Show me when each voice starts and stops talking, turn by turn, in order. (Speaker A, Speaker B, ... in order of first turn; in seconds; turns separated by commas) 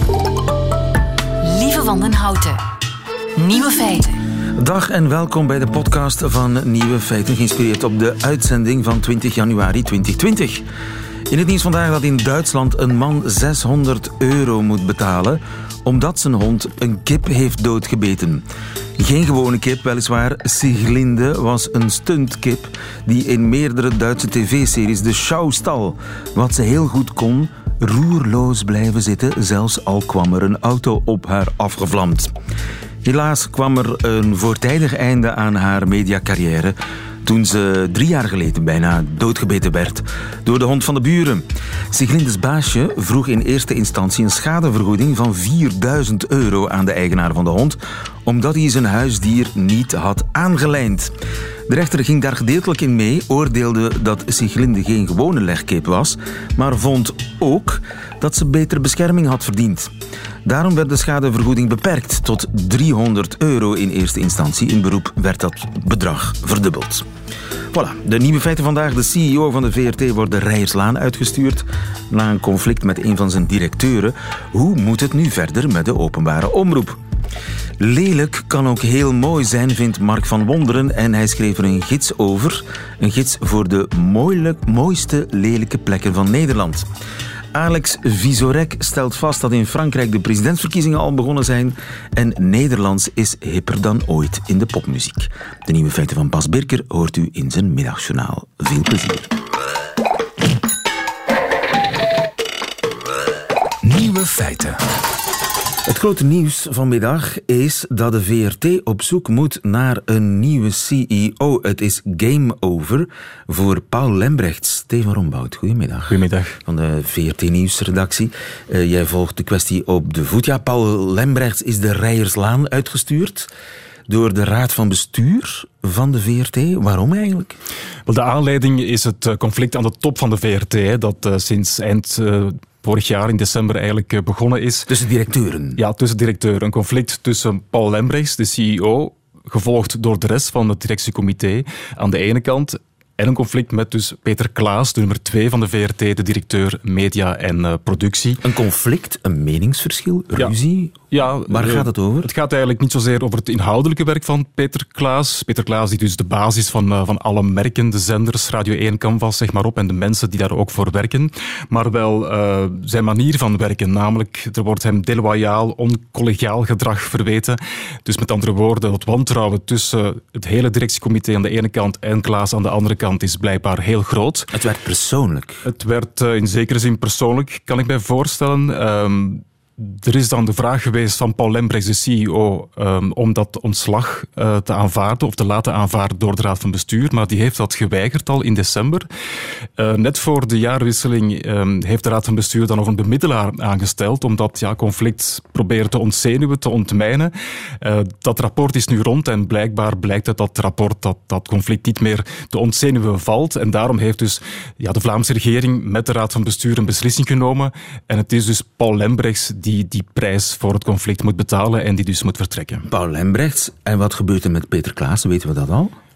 Speaker A: 1.4-2.6, Speaker A: 3.4-4.2, Speaker B: 4.6-10.7, Speaker B: 11.3-18.4, Speaker B: 19.0-32.3, Speaker B: 33.0-51.1, Speaker B: 51.7-59.9, Speaker B: 60.5-67.1, Speaker B: 67.7-77.0, Speaker B: 77.8-86.9, Speaker B: 87.5-99.3, Speaker B: 103.9-104.2, Speaker B: 105.9-123.5, Speaker C: 116.1-116.6, Speaker B: 124.1-127.6, Speaker C: 128.1-134.9, Speaker B: 134.9-135.8, Speaker C: 135.8-148.4, Speaker B: 148.4-152.3, Speaker C: 151.1-174.5, Speaker B: 174.5-175.6, Speaker C: 175.7-189.1, Speaker C: 189.8-212.9, Speaker B: 212.9-215.9